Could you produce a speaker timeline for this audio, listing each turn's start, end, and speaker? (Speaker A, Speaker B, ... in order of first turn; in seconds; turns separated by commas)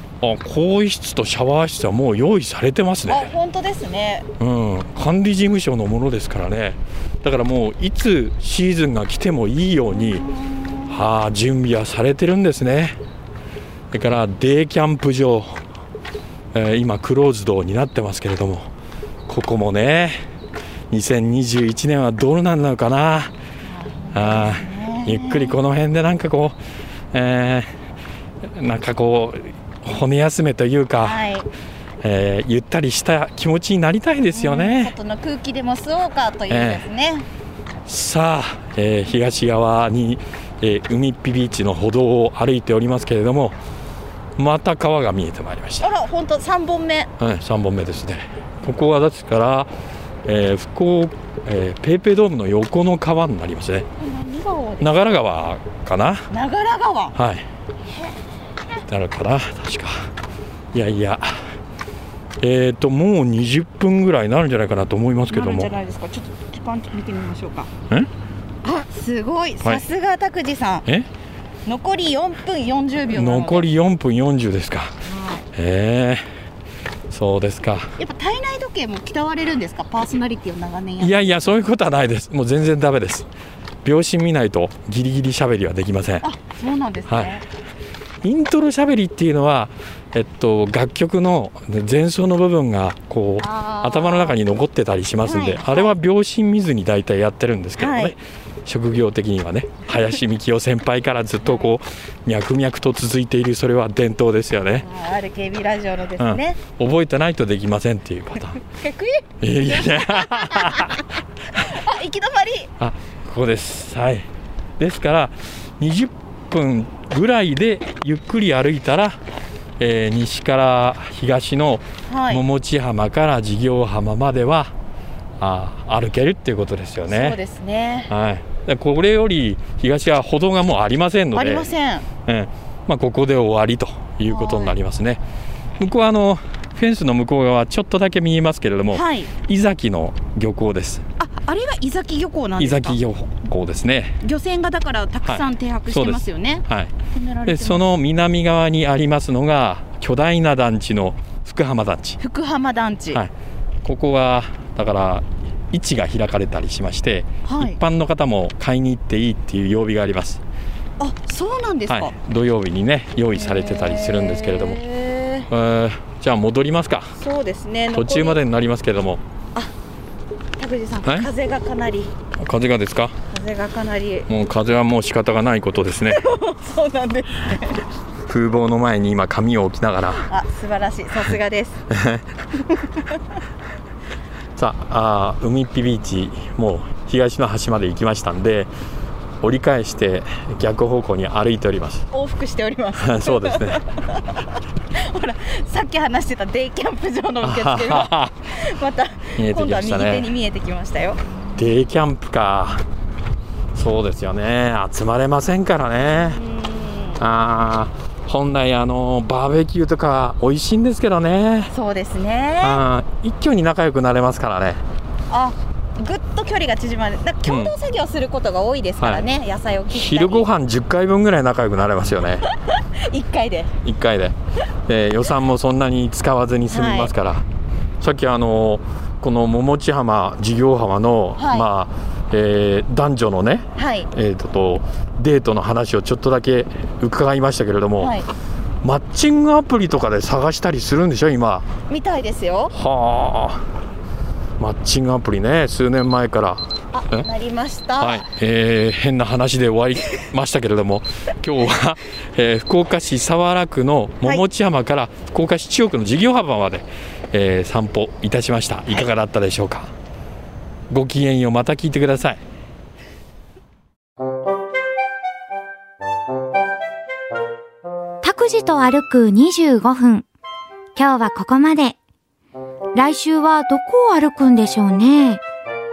Speaker A: 0.2-3.3, Speaker B: 3.1-4.3, Speaker A: 4.4-10.2, Speaker B: 9.9-11.0, Speaker A: 10.9-13.0, Speaker A: 13.9-15.6, Speaker A: 16.5-18.7, Speaker A: 19.3-20.2, Speaker A: 20.9-23.3, Speaker B: 23.6-25.6, Speaker A: 24.1-26.6, Speaker A: 27.1-27.7, Speaker A: 28.5-31.3, Speaker B: 31.0-31.5, Speaker A: 32.0-34.9, Speaker B: 34.3-37.3, Speaker A: 36.5-36.9, Speaker A: 37.9-43.5, Speaker A: 44.4-45.9, Speaker B: 45.8-47.1, Speaker A: 47.2-49.7, Speaker A: 50.2-53.9, Speaker B: 54.0-55.0, Speaker A: 54.8-56.3, Speaker B: 56.3-57.1, Speaker A: 57.1-57.5, Speaker A: 58.9-60.1, Speaker A: 60.7-61.4, Speaker A: 62.4-65.7, Speaker B: 65.3-67.7, Speaker B: 68.6-70.9, Speaker B: 71.7-73.7, Speaker A: 73.1-75.0, Speaker B: 75.0-75.5, Speaker A: 75.5-76.2, Speaker A: 77.1-77.9, Speaker B: 78.0-81.2, Speaker A: 81.0-83.3, Speaker A: 83.8-86.3, Speaker B: 86.2-87.4, Speaker A: 87.1-87.4, Speaker A: 88.2-104.8, Speaker B: 93.4-94.4, Speaker B: 95.2-95.9, Speaker B: 97.8-98.1, Speaker B: 104.8-106.6, Speaker A: 106.2-108.6, Speaker B: 108.6-112.7, Speaker A: 109.4-111.0, Speaker A: 112.8-114.3, Speaker A: 114.8-119.2, Speaker A: 119.8-124.7, Speaker B: 122.1-122.4, Speaker A: 125.4-127.4, Speaker B: 127.1-128.1, Speaker A: 128.1-131.7, Speaker B: 131.3-132.1, Speaker A: 132.2-135.2, Speaker B: 134.2-134.8, Speaker A: 135.8-141.0, Speaker B: 138.9-139.3, Speaker B: 141.2-143.0, Speaker A: 142.6-144.2, Speaker B: 144.2-147.9, Speaker A: 145.2-146.9, Speaker A: 147.5-152.2, Speaker B: 152.2-153.2, Speaker A: 153.8-160.4, Speaker B: 157.4-157.8, Speaker B: 161.0-162.1, Speaker A: 161.9-164.8, Speaker B: 163.3-165.5, Speaker A: 165.5-167.1, Speaker B: 167.2-168.4, Speaker A: 167.9-169.2, Speaker B: 170.6-172.1, Speaker A: 171.0-171.3, Speaker A: 172.4-173.2, Speaker B: 173.3-174.3, Speaker A: 174.3-176.2, Speaker B: 176.1-177.8, Speaker A: 178.2-180.3, Speaker B: 180.2-181.8, Speaker A: 181.9-182.2, Speaker B: 182.6-183.2, Speaker A: 184.6-188.7, Speaker A: 189.4-192.1, Speaker B: 192.1-201.2, Speaker A: 193.0-193.8, Speaker A: 197.4-198.3, Speaker A: 199.4-200.3, Speaker A: 201.6-202.8, Speaker A: 203.7-206.4, Speaker B: 206.1-207.2, Speaker A: 207.2-211.7, Speaker B: 211.7-212.8, Speaker A: 212.6-214.8, Speaker B: 215.3-220.5, Speaker A: 217.5-217.7, Speaker A: 219.0-219.3, Speaker A: 219.9-222.4, Speaker B: 222.5-223.7, Speaker A: 223.8-224.3, Speaker A: 224.9-227.4, Speaker B: 226.7-227.1, Speaker A: 228.0-238.1, Speaker B: 231.4-231.7, Speaker B: 233.8-234.1, Speaker B: 238.0-238.3, Speaker A: 238.8-241.7, Speaker B: 241.9-242.7, Speaker A: 242.7-243.6, Speaker A: 244.6-247.3, Speaker B: 246.9-248.2, Speaker A: 248.0-259.9, Speaker A: 260.9-262.4, Speaker C: 268.2-270.2, Speaker C: 270.9-271.9, Speaker C: 272.9-275.4